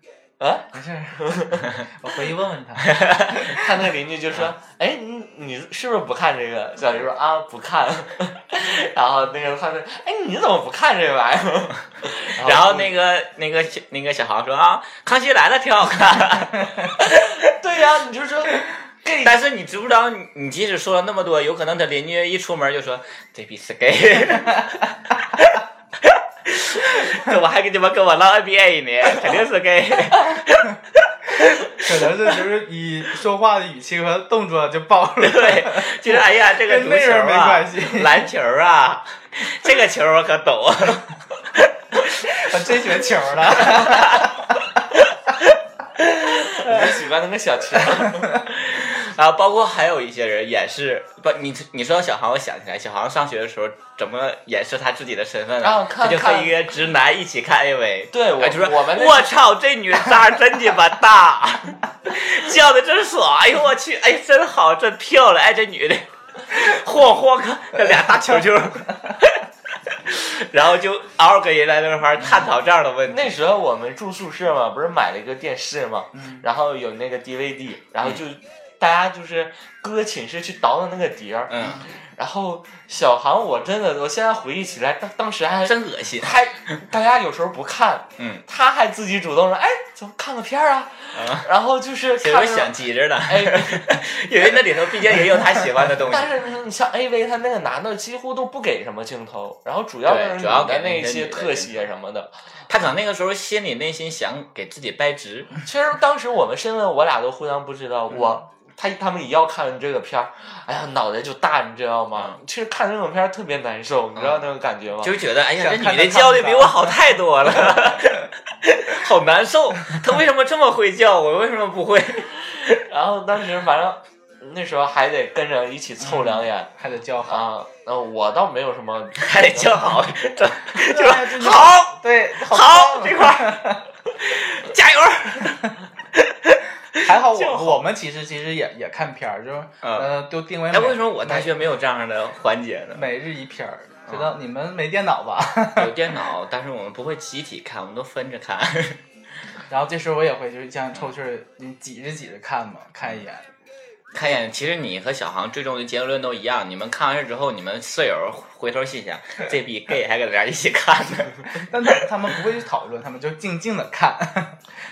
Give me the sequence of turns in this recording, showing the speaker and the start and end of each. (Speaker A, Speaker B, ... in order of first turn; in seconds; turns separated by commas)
Speaker A: 0.4-1.6, Speaker B: 0.7-3.5, Speaker C: 2.9-3.5, Speaker A: 3.5-12.9, Speaker C: 12.4-17.4, Speaker A: 17.1-19.4, Speaker C: 19.2-31.9, Speaker B: 31.7-38.2, Speaker C: 35.2-42.1, Speaker B: 42.2-44.6, Speaker C: 43.5-44.3, Speaker C: 46.0-46.5, Speaker A: 46.5-48.4, Speaker C: 48.4-69.4, Speaker A: 55.6-56.6, Speaker A: 58.1-59.4, Speaker C: 70.0-73.3, Speaker A: 73.1-94.1, Speaker C: 81.5-81.8, Speaker C: 85.6-86.8, Speaker C: 88.2-88.4, Speaker C: 91.1-91.5, Speaker C: 92.2-96.3, Speaker A: 96.0-102.3, Speaker C: 100.0-101.7, Speaker C: 102.7-105.6, Speaker A: 105.6-115.2, Speaker C: 114.2-114.4, Speaker C: 115.0-122.8, Speaker B: 115.6-117.0, Speaker A: 122.8-126.7, Speaker B: 126.8-127.5, Speaker A: 127.2-129.9, Speaker C: 129.2-137.9, Speaker B: 130.7-133.8, Speaker B: 137.0-141.5, Speaker C: 139.8-140.1, Speaker C: 140.7-143.1, Speaker B: 142.9-145.9, Speaker C: 145.8-149.0, Speaker B: 149.7-153.4, Speaker C: 154.1-161.7, Speaker B: 161.6-164.6